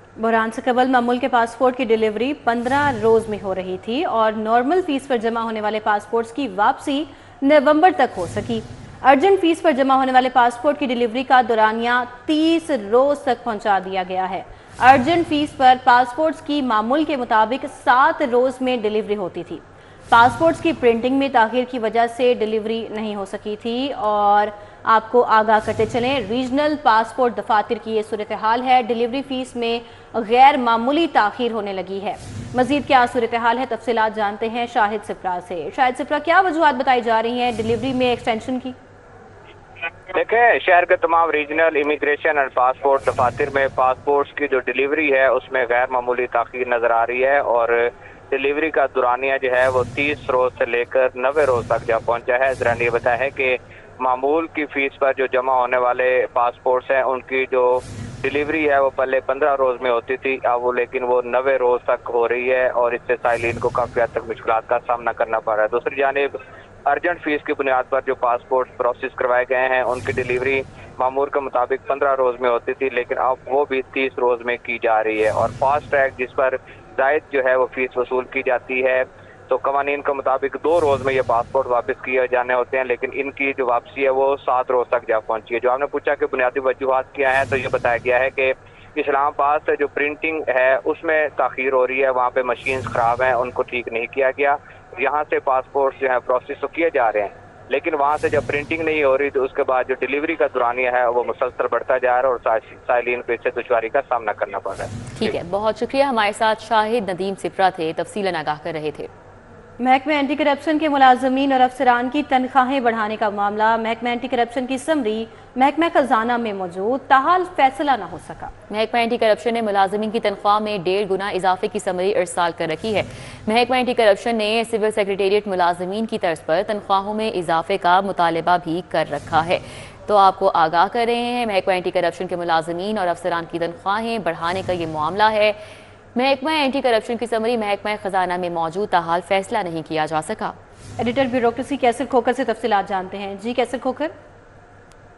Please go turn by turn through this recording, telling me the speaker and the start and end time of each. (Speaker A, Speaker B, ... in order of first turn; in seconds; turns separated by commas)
Speaker A: 0.2-38.7, Speaker B: 40.1-66.3, Speaker B: 66.8-105.3, Speaker C: 105.2-109.1, Speaker A: 109.8-118.5, Speaker C: 118.7-135.6, Speaker C: 136.1-140.6, Speaker A: 141.0-144.1